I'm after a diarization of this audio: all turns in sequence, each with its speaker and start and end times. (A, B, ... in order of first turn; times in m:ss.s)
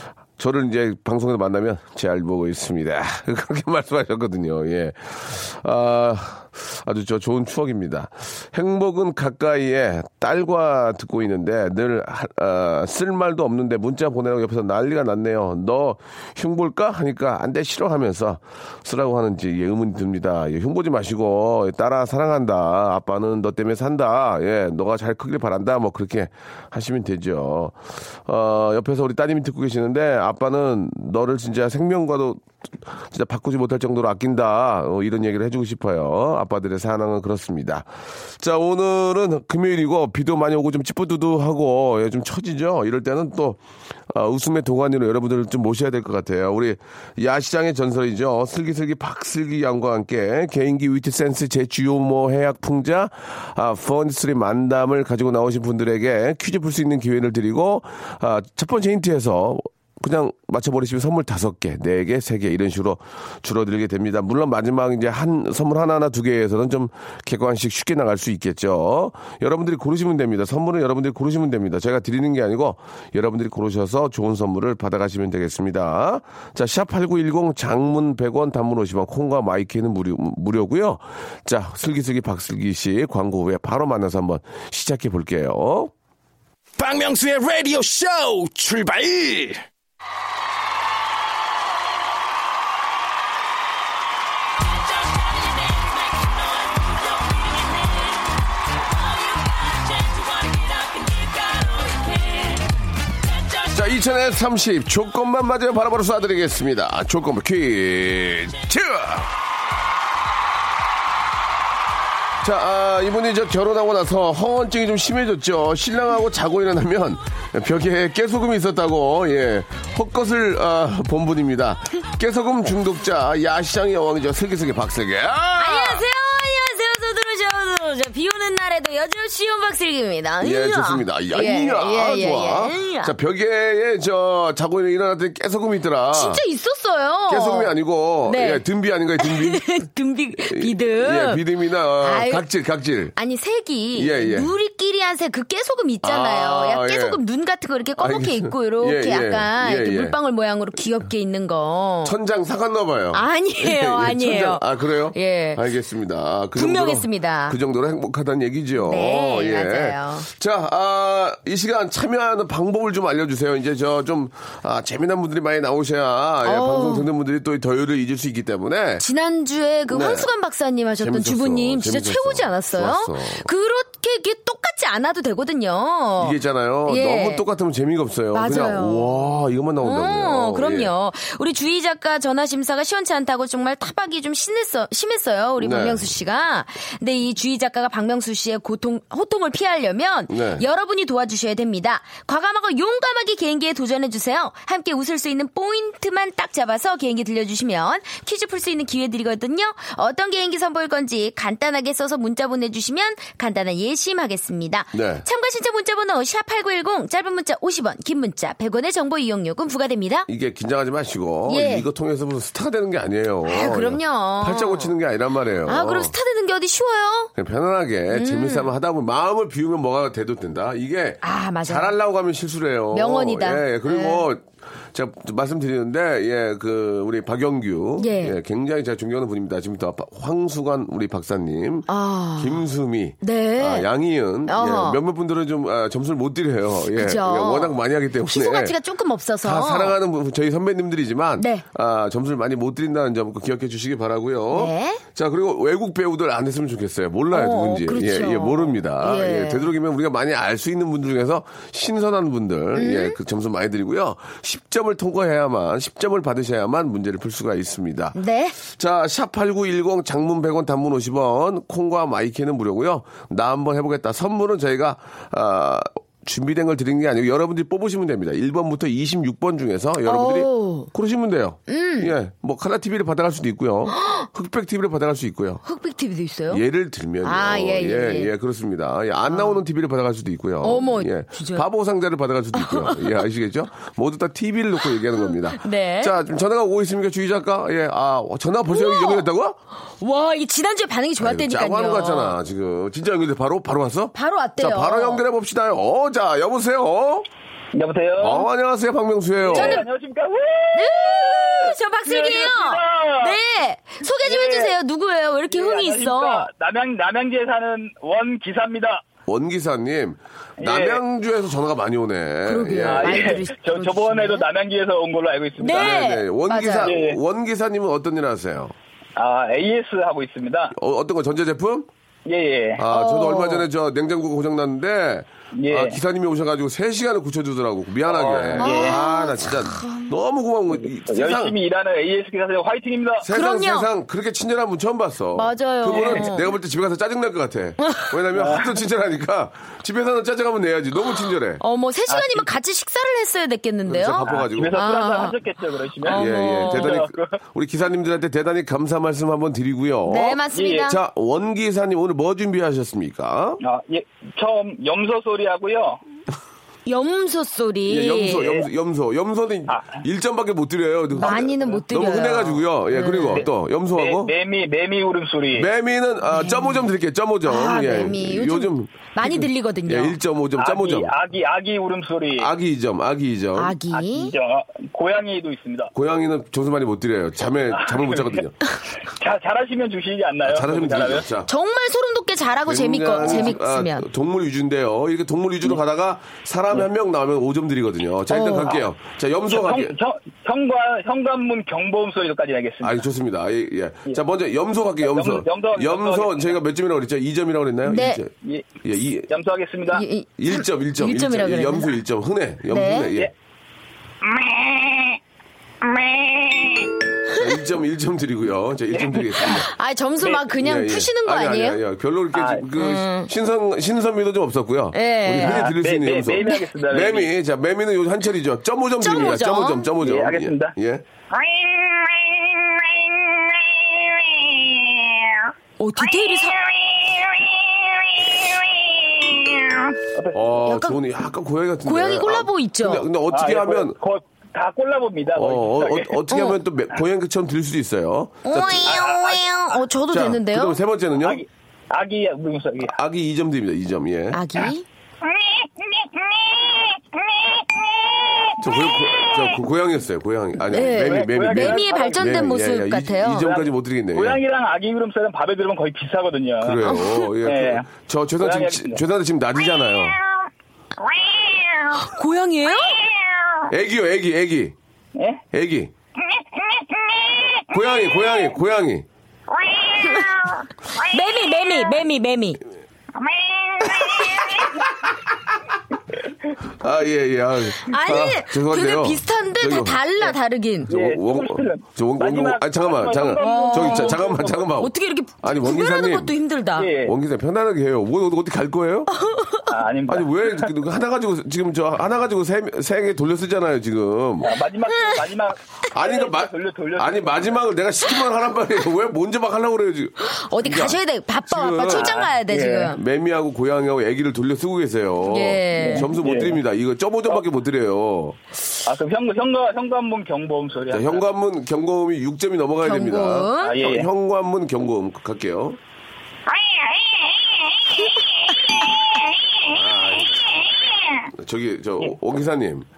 0:00.3-0:37.9 A
0:38.4-1:25.9 A
1:26.8-1:29.6 B
1:39.4-1:42.6 C
1:43.7-1:49.3 A
1:52.4-2:06.0 A
2:05.6-2:13.1 C
2:10.4-2:16.4 A
2:16.1-2:17.7 C
2:17.3-2:19.7 A
2:18.2-2:18.6 C
2:19.2-2:21.4 C
2:20.4-2:23.1 A
2:22.0-2:22.4 C
2:23.1-2:32.2 C
2:23.9-2:24.5 A
2:26.0-2:27.2 A
2:28.0-2:30.2 A
2:32.0-2:49.0 A
2:33.1-2:35.6 C
2:36.6-2:37.6 C
2:38.8-2:40.3 C
2:46.4-2:47.1 C
2:49.0-2:57.4 C
2:49.9-2:50.3 A
2:51.0-2:53.5 A
2:56.2-3:00.9 A
2:58.3-2:59.2 C
2:59.8-3:30.3 C
3:05.6-3:06.1 A
3:10.3-3:10.6 A
3:24.9-3:25.2 A
3:30.3-3:36.1 A
3:31.5-3:31.9 C
3:33.4-3:34.9 C
3:35.6-3:37.3 C
3:37.4-3:58.8 A
3:38.1-3:38.7 C
3:41.2-3:41.9 C
3:42.9-3:44.2 C
3:48.0-3:48.4 C
3:51.9-3:52.6 C
3:53.2-3:53.9 C
3:54.5-3:55.0 C
3:56.9-4:00.0 C
3:59.4-4:35.6 A
4:01.4-4:01.6 C
4:04.5-4:05.0 C
4:07.3-4:09.7 C
4:12.8-4:13.2 C
4:18.1-4:18.6 C
4:30.0-4:30.9 C
4:31.7-4:32.1 C
4:33.9-4:34.3 C
4:35.6-4:36.6 C
4:36.5-4:49.6 A
4:37.2-4:38.3 C
4:39.3-4:39.6 C
4:40.6-4:41.7 C
4:42.5-4:43.2 C
4:45.2-4:46.2 C
4:48.7-4:49.3 C
4:50.0-4:52.4 C
4:51.2-4:57.3 A
4:54.1-4:55.2 C
4:57.7-4:58.5 D
4:58.2-4:59.8 A
4:59.4-5:03.4 D
4:59.5-4:59.8 C
5:00.7-5:06.5 C
5:04.2-5:04.7 D
5:05.5-5:09.0 D
5:09.3-5:13.4 A
5:10.6-5:11.0 D
5:12.4-5:14.4 C
5:12.8-5:16.0 D
5:15.6-5:16.9 C
5:15.6-5:18.7 A
5:16.8-5:17.2 D
5:19.2-5:20.7 D
5:20.7-5:21.9 A
5:22.2-5:22.8 D
5:22.8-5:31.6 A
5:22.9-5:23.6 C
5:25.5-5:26.0 D
5:28.0-5:29.0 D
5:28.6-5:30.1 C
5:30.7-5:33.3 D
5:33.2-5:41.6 A
5:33.3-5:33.9 C
5:35.3-5:36.5 C
5:35.9-5:36.2 D
5:37.8-5:38.1 C
5:38.3-5:38.7 D
5:41.6-5:45.4 C
5:42.1-5:42.5 D
5:43.8-5:44.8 A
5:44.2-5:47.3 D
5:46.0-5:47.0 C
5:46.1-5:53.6 A
5:50.0-5:51.0 C
5:50.5-5:50.9 D
5:53.6-5:56.0 D
5:56.8-5:58.4 C
5:57.8-6:04.3 A
5:58.4-5:58.6 D
5:59.7-6:00.0 D
6:01.2-6:03.5 C
6:01.2-6:01.6 D
6:03.3-6:05.7 D
6:05.5-6:11.1 A
6:06.3-6:06.9 C
6:07.4-6:10.2 C
6:10.6-6:12.5 D
6:12.3-6:13.8 A
6:13.5-6:14.3 C
6:13.9-6:15.9 D
6:15.9-6:18.6 A
6:17.8-6:18.4 D
6:19.2-6:21.2 D
6:20.4-6:21.5 A
6:21.5-6:24.0 C
6:22.6-6:29.9 A
6:28.3-6:28.8 C
6:29.5-6:33.0 D
6:32.8-6:38.3 A
6:35.0-6:36.6 D
6:37.8-6:38.2 C
6:38.4-6:38.7 D
6:38.8-6:39.3 A
6:39.3-6:40.0 D
6:39.9-6:42.0 C
6:40.4-6:43.3 A
6:42.7-6:43.1 C
6:44.2-6:45.2 D
6:45.8-6:46.9 D
6:47.4-6:49.7 A
6:48.9-6:49.6 D
6:49.5-6:51.8 C
6:50.5-7:01.0 A
6:52.3-6:52.6 D
6:52.7-6:53.3 C
6:54.9-6:55.7 C
6:55.4-6:57.3 D
6:59.0-6:59.8 C
7:00.0-7:00.7 D
7:01.3-7:05.5 D
7:05.8-7:06.6 C
7:06.6-7:10.4 D
7:10.3-7:14.0 A
7:10.6-7:11.0 C
7:11.8-7:13.0 C
7:13.3-7:16.2 D
7:15.3-7:19.0 A
7:16.3-7:16.6 C
7:18.4-7:20.8 C
7:18.8-7:19.8 D
7:20.1-7:21.4 A
7:21.2-7:23.0 D
7:22.8-7:24.5 A
7:24.3-7:24.8 C
7:25.2-7:28.6 D
7:28.6-7:34.4 A
7:30.7-7:33.6 C
7:30.8-7:32.5 D
7:33.4-7:37.9 D
7:36.6-7:40.2 A
7:36.8-7:37.2 C
7:38.4-7:39.0 D
7:41.0-7:42.1 D
7:42.0-7:43.0 C
7:43.0-7:43.6 D
7:43.7-7:44.7 A
7:45.2-7:45.4 D
7:45.5-7:45.9 A
7:46.6-7:47.8 D
7:47.7-7:49.0 A
7:49.5-7:51.5 D
7:50.0-7:50.4 C
7:51.0-7:52.6 C
7:53.2-7:54.8 D
7:56.8-8:00.0 A
7:57.8-8:00.9 C
8:00.9-8:06.3 A
8:00.9-8:04.7 D
8:03.4-8:04.2 C
8:04.7-8:06.9 C
8:06.8-8:07.1 D
8:07.0-8:09.1 A
8:09.1-8:09.7 C
8:09.7-8:10.5 D
8:10.1-8:14.6 A
8:14.4-8:17.6 D
8:14.9-8:15.2 C
8:15.9-8:22.2 A
8:20.2-8:23.0 C
8:21.9-8:23.0 D
8:22.9-8:28.4 A
8:25.2-8:26.1 C
8:25.7-8:26.6 D
8:28.8-8:31.2 D
8:30.9-8:35.8 A
8:32.8-8:33.8 C
8:33.6-8:34.1 D
8:36.6-8:38.0 D
8:39.7-8:40.4 A
8:41.3-8:42.9 A